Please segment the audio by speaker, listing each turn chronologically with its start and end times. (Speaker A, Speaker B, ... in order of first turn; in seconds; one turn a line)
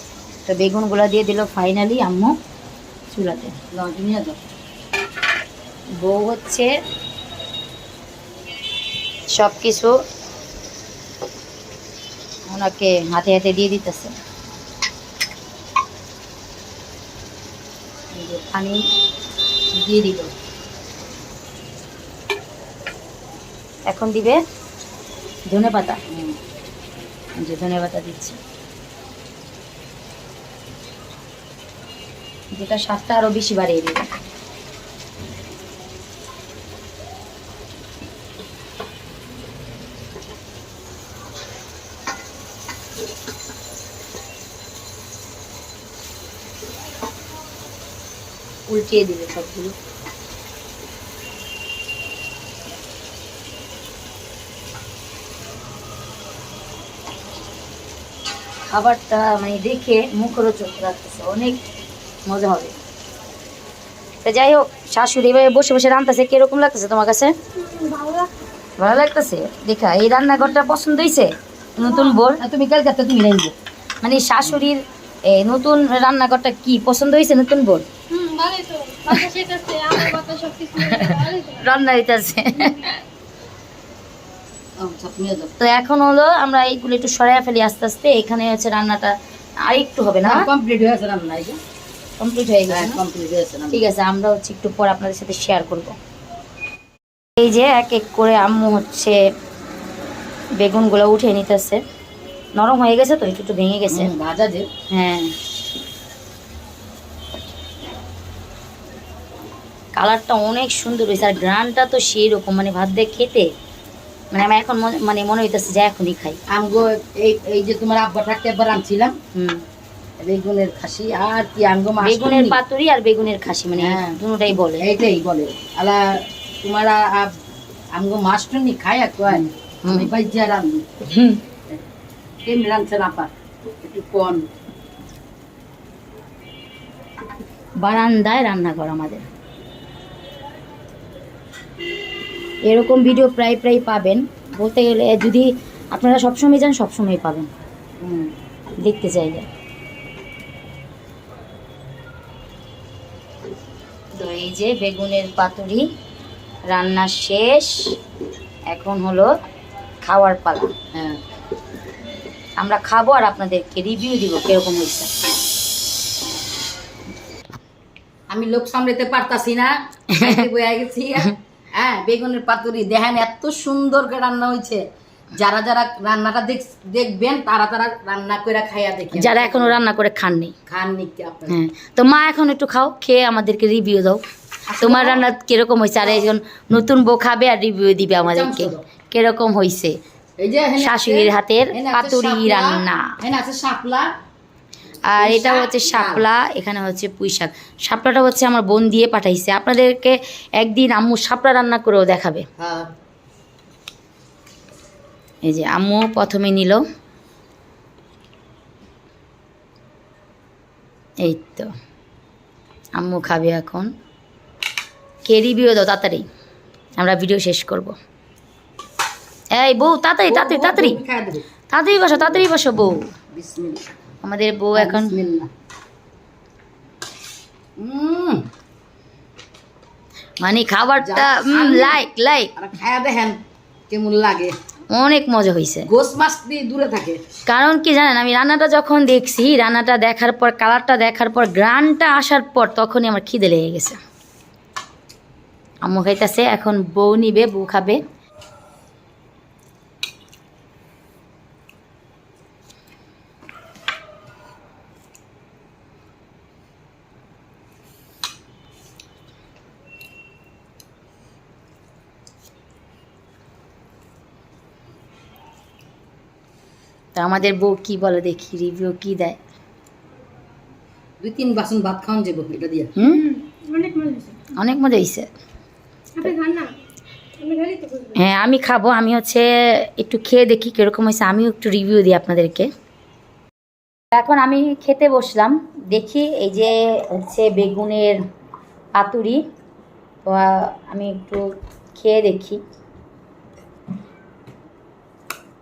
Speaker A: 0.5-2.3
Speaker A: 3.1-3.5
Speaker B: 3.7-4.4
Speaker A: 6.0-6.7
Speaker A: 9.3-10.0
Speaker A: 12.5-14.1
Speaker A: 18.1-18.9
Speaker A: 19.7-20.3
Speaker A: 23.9-24.4
Speaker A: 25.5-26.0
Speaker B: 26.1-26.4
Speaker A: 27.4-28.4
Speaker A: 32.5-34.0
Speaker A: 48.7-49.8
Speaker A: 58.7-61.6
Speaker A: 62.2-62.7
Speaker A: 64.2-67.3
Speaker C: 67.6-68.4
Speaker A: 68.8-72.4
Speaker B: 72.2-73.5
Speaker A: 74.0-77.9
Speaker C: 78.1-81.6
Speaker A: 80.8-83.0
Speaker B: 84.8-85.5
Speaker A: 85.6-90.5
Speaker B: 90.2-91.6
Speaker A: 92.2-93.0
Speaker B: 92.7-93.8
Speaker A: 93.7-96.0
Speaker A: 97.4-99.2
Speaker A: 100.6-101.8
Speaker A: 102.5-104.1
Speaker B: 103.9-104.7
Speaker A: 104.9-105.3
Speaker A: 109.9-113.5
Speaker A: 114.3-116.4
Speaker B: 116.5-119.2
Speaker A: 119.3-119.6
Speaker B: 120.2-122.6
Speaker A: 122.0-124.9
Speaker B: 123.8-124.2
Speaker B: 124.8-127.3
Speaker B: 127.9-130.9
Speaker A: 129.3-130.1
Speaker A: 131.0-131.4
Speaker B: 132.4-133.3
Speaker B: 133.8-134.5
Speaker A: 137.8-139.2
Speaker A: 142.7-147.5
Speaker B: 148.0-148.3
Speaker A: 148.8-149.5
Speaker A: 154.2-155.9
Speaker A: 156.7-157.9
Speaker A: 158.7-159.3
Speaker A: 160.0-160.7
Speaker B: 160.9-161.2
Speaker A: 162.6-165.1
Speaker B: 168.3-174.8
Speaker A: 170.1-170.5
Speaker B: 175.3-179.8
Speaker A: 179.1-180.5
Speaker B: 180.7-181.6
Speaker A: 181.5-184.2
Speaker B: 184.7-185.3
Speaker A: 184.8-189.9
Speaker B: 186.0-186.3
Speaker B: 188.2-188.8
Speaker B: 190.4-194.1
Speaker A: 190.8-193.2
Speaker A: 195.1-202.5
Speaker B: 195.2-196.2
Speaker B: 202.6-202.9
Speaker A: 205.4-206.8
Speaker A: 211.2-211.7
Speaker A: 212.9-213.9
Speaker A: 215.2-216.2
Speaker A: 217.0-218.0
Speaker A: 219.5-221.0
Speaker B: 220.2-221.4
Speaker A: 221.7-223.1
Speaker B: 223.3-223.8
Speaker A: 224.2-225.2
Speaker B: 224.8-225.5
Speaker B: 227.8-228.5
Speaker A: 230.4-232.5
Speaker B: 231.0-232.0
Speaker B: 232.5-234.5
Speaker A: 234.9-235.9
Speaker B: 235.8-237.2
Speaker A: 237.4-244.0
Speaker A: 245.8-248.0
Speaker A: 267.1-269.4
Speaker B: 271.2-272.9
Speaker A: 272.9-273.4
Speaker C: 273.2-274.3
Speaker A: 274.5-275.3
Speaker C: 276.1-276.7
Speaker C: 277.4-278.2
Speaker A: 278.1-282.7
Speaker A: 284.1-288.2
Speaker A: 288.9-289.4
Speaker A: 290.2-292.6